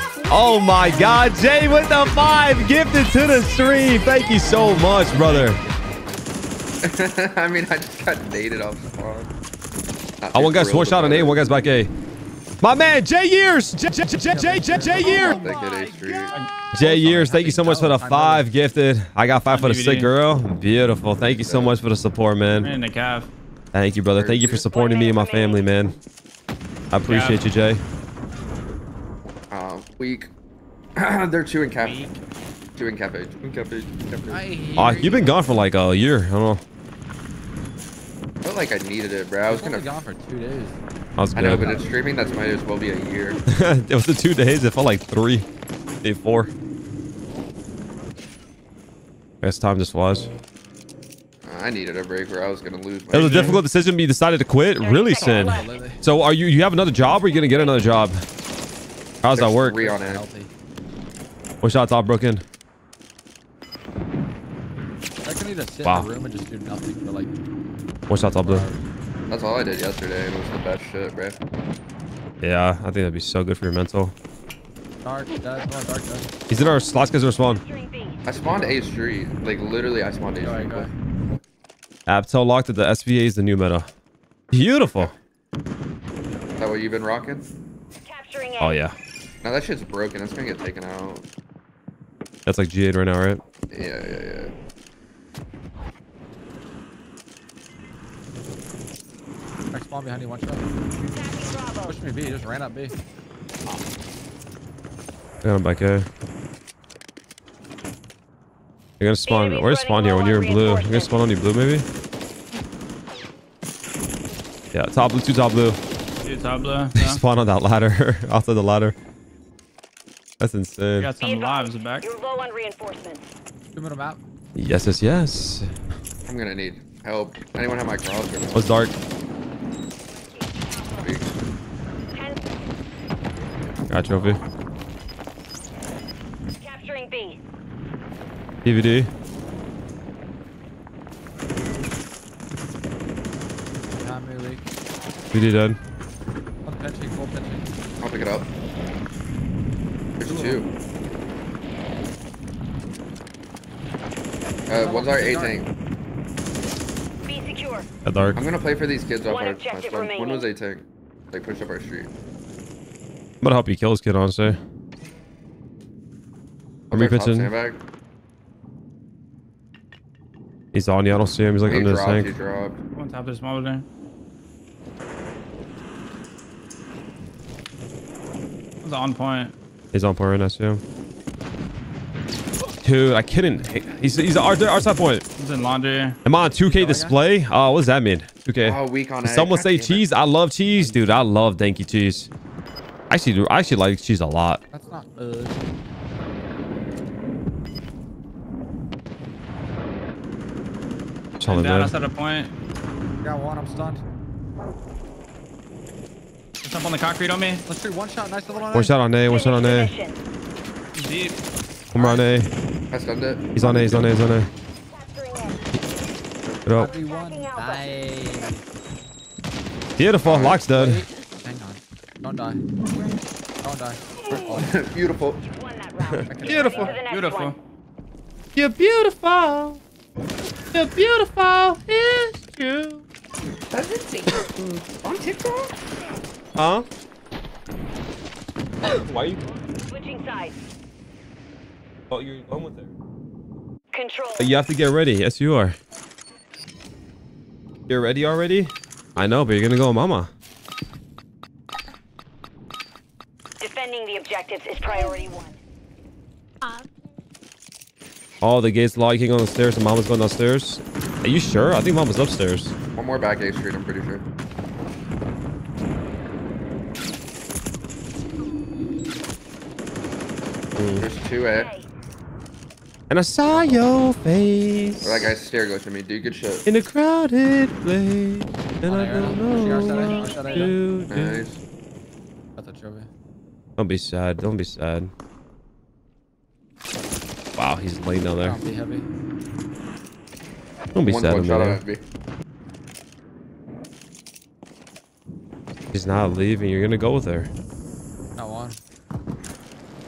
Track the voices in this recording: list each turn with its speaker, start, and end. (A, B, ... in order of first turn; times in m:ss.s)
0:00.3-0:05.6 A
0:04.2-0:06.3 B
0:06.8-0:09.3 C
0:10.2-0:11.4 C
0:10.3-0:11.9 A
0:12.6-0:15.8 A
0:14.2-0:18.5 B
0:15.0-0:16.4 C
0:16.7-0:22.7 A
0:19.5-0:20.1 D
0:21.3-0:21.8 C
0:22.5-0:23.3 D
0:23.7-0:26.0 A
0:24.1-0:24.7 C
0:24.7-0:25.7 E
0:26.9-0:27.8 A
0:27.0-0:27.4 D
0:29.5-0:30.3 C
0:31.0-0:32.1 C
0:31.8-0:32.1 D
0:32.8-0:34.4 C
0:34.3-0:35.3 B
0:34.8-0:36.6 A
0:38.4-0:39.9 C
0:39.5-0:40.8 B
0:41.2-0:41.8 A
0:41.4-0:43.4 C
0:41.6-0:42.3 B
0:43.5-0:45.5 A
0:46.0-0:46.5 A
0:49.4-0:50.3 A
0:51.4-0:53.6 C
0:53.1-0:58.2 A
0:53.1-0:53.6 D
0:54.8-0:55.8 E
0:55.2-0:56.0 B
0:57.1-0:58.0 E
0:59.2-0:59.8 A
0:59.3-1:00.2 C
0:59.7-1:00.5 B
1:01.6-1:02.4 A
1:05.2-1:07.3 B
1:08.1-1:08.7 A
1:08.4-1:08.8 B
1:09.3-1:11.4 C
1:12.4-1:14.1 A
1:15.0-1:16.4 B
1:16.5-1:17.6 A
1:17.4-1:18.2 E
1:18.2-1:20.9 C
1:18.3-1:18.8 B
1:20.4-1:20.9 B
1:22.1-1:23.9 A
1:24.5-1:25.1 A
1:26.6-1:27.4 C
1:28.0-1:28.8 E
1:28.6-1:29.0 A
1:29.4-1:31.2 C
1:32.4-1:33.4 A
1:33.7-1:34.5 C
1:39.7-1:40.6 B
1:41.0-1:41.9 E
1:41.8-1:42.9 B
1:45.4-1:46.0 A
1:49.0-1:51.8 A
1:49.2-1:51.2 E
1:54.7-1:55.8 A
1:56.2-1:57.2 D
1:57.0-1:58.9 A
2:00.4-2:01.1 A
2:01.0-2:02.1 D
2:01.2-2:03.3 E
2:03.8-2:04.2 B
2:04.6-2:05.7 A
2:06.3-2:08.7 C
2:08.5-2:08.9 A
2:10.2-2:11.1 E
2:11.0-2:11.3 C
2:12.1-2:12.6 E
2:13.9-2:14.4 A
2:16.6-2:17.4 E
2:18.6-2:19.1 A
2:24.0-2:24.6 B
2:25.3-2:25.8 A
2:26.6-2:27.7 B
2:28.0-2:28.5 C
2:30.2-2:30.7 C
2:30.2-2:30.7 B
2:34.7-2:35.7 C
2:34.7-2:35.6 B
2:37.2-2:37.9 E
2:38.0-2:38.4 A
2:38.3-2:42.1 C
2:39.2-2:40.5 E
2:43.4-2:44.6 A
2:46.9-2:47.8 C
2:46.9-2:47.5 A
2:50.7-2:52.3 A
2:51.7-2:52.8 C
2:53.0-2:53.8 D
2:58.8-2:59.5 D
2:59.9-3:00.8 A
3:02.8-3:05.2 A
3:05.4-3:06.2 D
3:06.2-3:12.3 A
3:06.6-3:07.2 B
3:08.6-3:10.0 C
3:10.7-3:11.2 B
3:13.1-3:14.6 A
3:14.7-3:15.6 B
3:21.4-3:21.9 A
3:21.4-3:22.5 D
3:23.2-3:24.0 B
3:26.6-3:27.6 D
3:27.7-3:28.9 B
3:28.7-3:29.9 A
3:29.3-3:30.2 E
3:30.9-3:31.4 D
3:31.9-3:32.5 A
3:32.0-3:32.2 B
3:32.9-3:33.5 C
3:33.6-3:34.5 A
3:33.6-3:34.1 B
3:34.9-3:35.7 E
3:36.7-3:36.9 A
3:36.7-3:38.6 B
3:36.9-3:37.9 E
3:40.0-3:41.0 A
3:40.2-3:40.6 C
3:40.7-3:42.6 B
3:43.6-3:44.7 B
3:44.3-3:45.5 C
3:45.4-3:47.6 E
3:46.0-3:47.0 A
3:46.3-3:47.0 B
3:47.0-3:47.6 D
3:48.5-3:49.8 A
3:50.7-3:53.0 A
3:53.7-3:55.8 C
3:56.6-3:56.8 A
3:58.8-3:59.4 A
3:59.9-4:00.6 E
4:02.1-4:02.9 A
4:03.9-4:04.5 E
4:04.4-4:05.8 A
4:07.9-4:10.3 A
4:13.6-4:15.6 E
4:18.4-4:22.7 A
4:23.0-4:24.2 C
4:30.8-4:31.1 A
4:31.0-4:31.7 C
4:31.5-4:31.9 E
4:33.1-4:35.3 A
4:33.5-4:33.8 B
4:35.0-4:36.7 C
4:36.7-4:41.5 A
4:38.8-4:40.8 B
4:39.6-4:40.6 E
4:41.1-4:41.6 C
4:42.6-4:43.1 B
4:43.8-4:45.1 A
4:47.6-4:48.6 A
4:48.4-4:49.1 B
4:51.0-4:51.8 A
4:51.0-4:52.0 C
4:55.9-4:57.5 A
4:58.4-4:58.8 B